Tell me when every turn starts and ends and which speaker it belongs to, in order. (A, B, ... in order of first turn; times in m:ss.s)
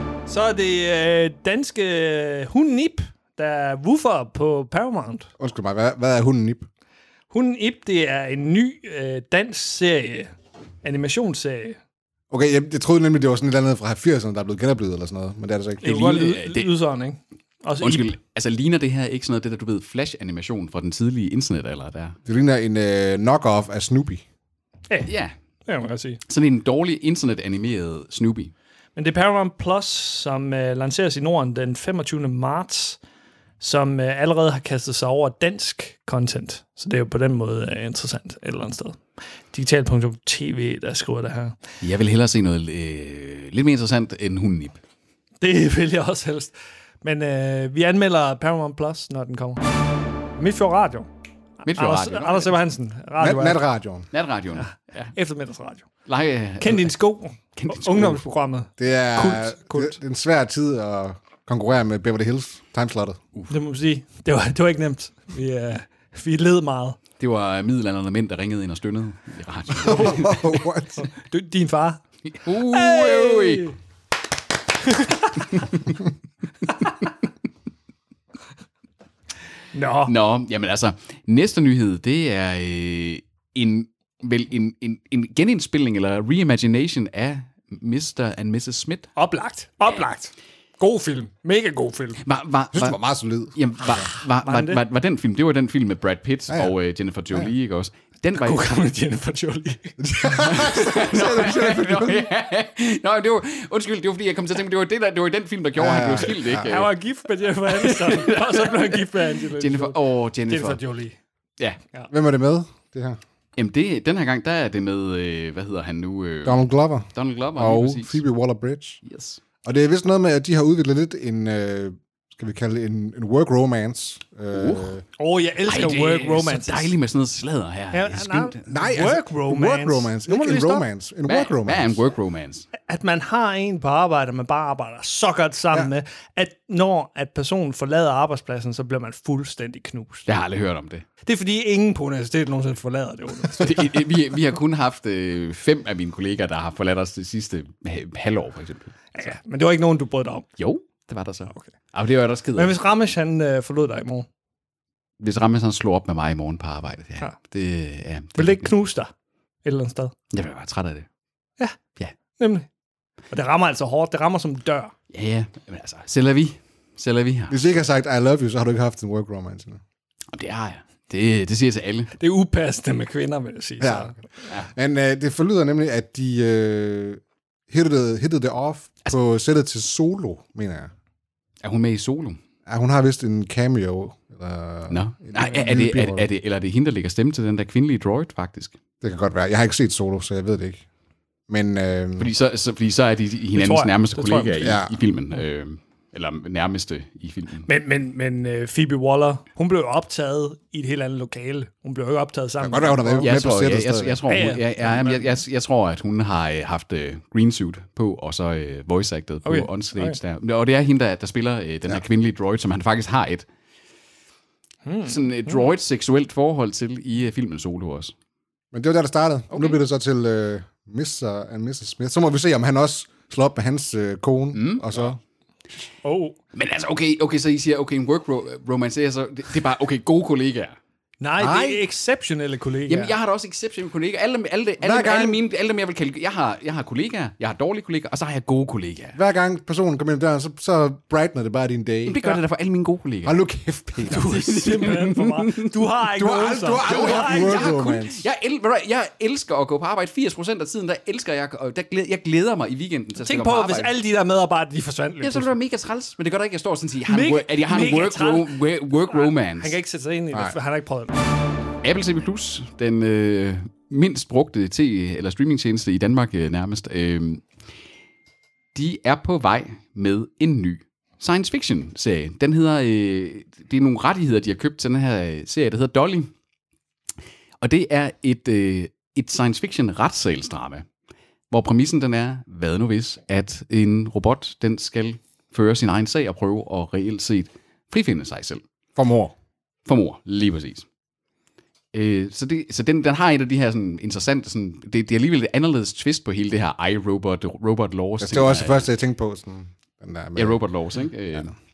0:00.3-0:05.3 A
0:05.4-0:06.7 B
0:07.3-0:10.3 A
0:10.8-0:11.8 A
0:12.3-0:15.9 B
0:15.8-0:16.7 C
0:15.8-0:18.1 A
0:17.8-0:22.2 C
0:22.3-0:24.2 B
0:25.0-0:25.3 C
0:25.7-0:26.2 A
0:26.3-0:28.5 C
0:29.0-0:33.0 A
0:33.6-0:41.6 A
0:41.8-0:44.8 C
0:45.4-0:49.6 A
0:50.4-0:51.1 A
0:51.6-0:52.6 C
0:51.6-0:53.6 A
0:53.2-0:54.1 B
0:54.1-0:55.1 C
0:54.6-0:55.9 A
0:56.1-0:56.9 C
0:56.6-1:00.0 A
0:57.6-0:58.2 C
0:58.8-1:03.2 B
1:03.5-1:07.0 A
1:07.2-1:10.6 C
1:09.8-1:11.0 B
1:11.0-1:13.8 A
1:12.3-1:13.7 C
1:14.8-1:15.5 A
1:15.5-1:15.8 C
1:16.7-1:17.1 C
1:19.7-1:20.1 A
1:20.1-1:29.1 C
1:29.2-1:32.2 A
1:32.2-1:33.0 C
1:32.7-1:34.1 B
1:33.5-1:39.2 C
1:34.4-1:34.8 A
1:38.3-1:40.0 A
1:40.0-1:42.3 B
1:40.2-1:46.9 C
1:45.8-1:46.9 B
1:46.7-1:51.2 A
1:47.7-1:50.8 C
1:52.1-1:53.2 B
1:53.6-1:58.2 C
1:56.4-1:59.0 B
1:59.0-1:59.4 C
1:59.6-2:05.0 B
2:04.5-2:05.0 C
2:05.2-2:06.9 A
2:05.6-2:08.7 C
2:07.9-2:10.9 A
2:08.6-2:12.0 B
2:11.2-2:12.7 C
2:12.8-2:20.3 A
2:20.3-2:21.1 C
2:21.2-2:23.9 A
2:23.6-2:29.3 C
2:29.2-2:30.5 A
2:30.6-2:32.8 C
2:32.6-2:34.3 A
2:35.2-2:38.7 C
2:38.4-2:39.1 A
2:39.6-2:40.1 A
2:40.3-2:41.1 C
2:42.4-2:42.7 A
2:43.3-2:44.9 A
2:45.1-2:47.6 C
2:47.5-2:49.8 B
2:50.3-2:52.1 C
2:52.2-2:54.2 A
2:53.8-3:00.9 B
3:01.6-3:02.4 C
3:02.7-3:06.2 B
3:04.9-3:08.8 C
3:09.0-3:10.8 B
3:11.5-3:12.3 B
3:12.2-3:17.7 C
3:13.5-3:14.8 A
3:14.6-3:14.9 B
3:17.7-3:23.4 A
3:22.6-3:24.2 B
3:23.2-3:33.5 C
3:24.3-3:25.3 A
3:29.4-3:30.2 A
3:34.8-3:35.6 A
3:35.0-3:38.1 C
3:38.7-3:45.2 B
3:39.5-3:39.8 C
3:44.5-3:44.9 C
3:46.0-3:46.4 A
3:46.5-3:50.8 C
3:51.2-3:53.2 A
3:51.4-3:51.8 B
3:52.9-3:59.2 C
3:54.8-3:55.4 B
3:59.2-4:02.2 B
4:02.0-4:03.4 C
4:03.2-4:04.4 B
4:04.0-4:05.8 C
4:04.1-4:07.7 A
4:06.1-4:08.2 B
4:06.8-4:13.9 C
4:13.2-4:15.5 A
4:15.2-4:19.8 C
4:17.1-4:21.2 A
4:21.8-4:27.4 C
4:28.7-4:36.3 C
4:37.6-4:40.9 C
4:41.5-4:48.6 C
4:49.0-4:49.3 B
4:49.9-4:50.9 C
4:51.9-4:58.9 C
4:58.2-5:00.6 B
5:00.4-5:01.5 C